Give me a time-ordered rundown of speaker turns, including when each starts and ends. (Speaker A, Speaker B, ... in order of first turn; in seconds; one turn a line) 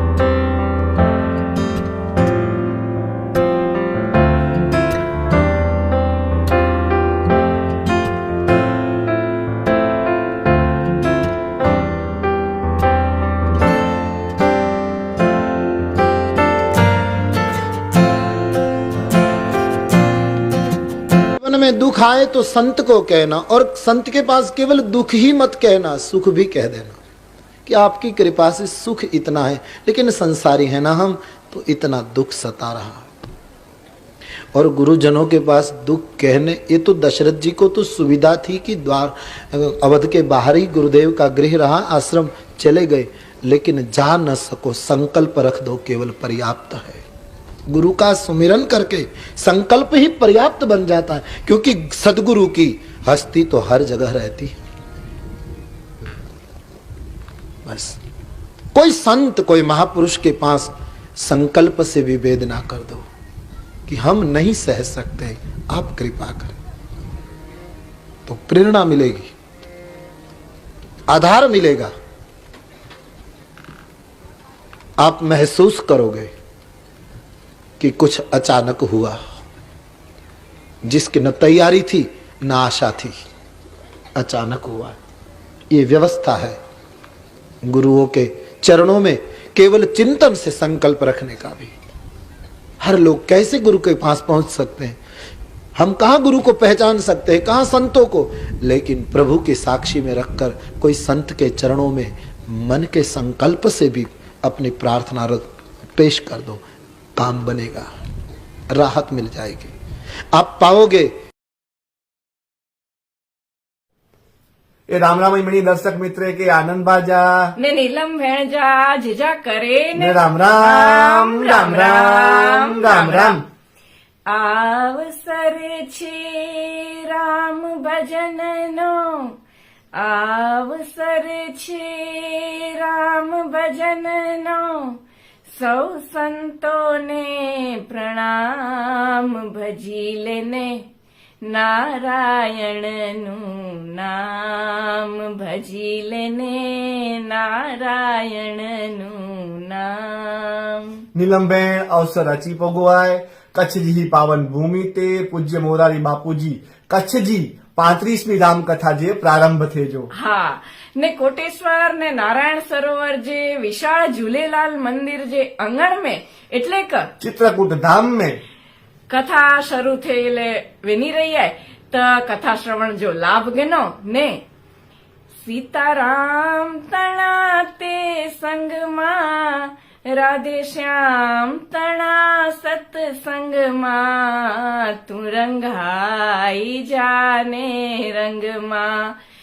Speaker A: 21.4-27.0
Speaker A: 27.6-33.1
Speaker A: 34.5-47.0
Speaker A: 47.7-54.5
Speaker A: 57.6-58.0
Speaker A: 58.7-63.0
Speaker A: 63.9-66.5
Speaker A: 68.2-69.3
Speaker A: 71.1-71.9
Speaker A: 75.0-76.3
Speaker A: 77.8-79.2
Speaker A: 80.8-83.2
Speaker A: 84.2-85.0
Speaker A: 85.7-86.6
Speaker A: 87.6-91.7
Speaker A: 92.8-95.0
Speaker A: 95.8-106.6
Speaker A: 107.2-107.9
Speaker A: 108.7-109.7
Speaker A: 110.3-111.1
Speaker B: 114.9-117.5
Speaker C: 117.6-123.4
Speaker B: 120.0-123.4
Speaker C: 124.3-129.3
Speaker C: 129.9-135.0
Speaker C: 135.5-140.9
Speaker C: 141.4-151.0
Speaker B: 151.1-160.1
Speaker C: 160.1-167.1
Speaker B: 167.2-168.4
Speaker C: 169.1-174.4
Speaker C: 175.4-189.2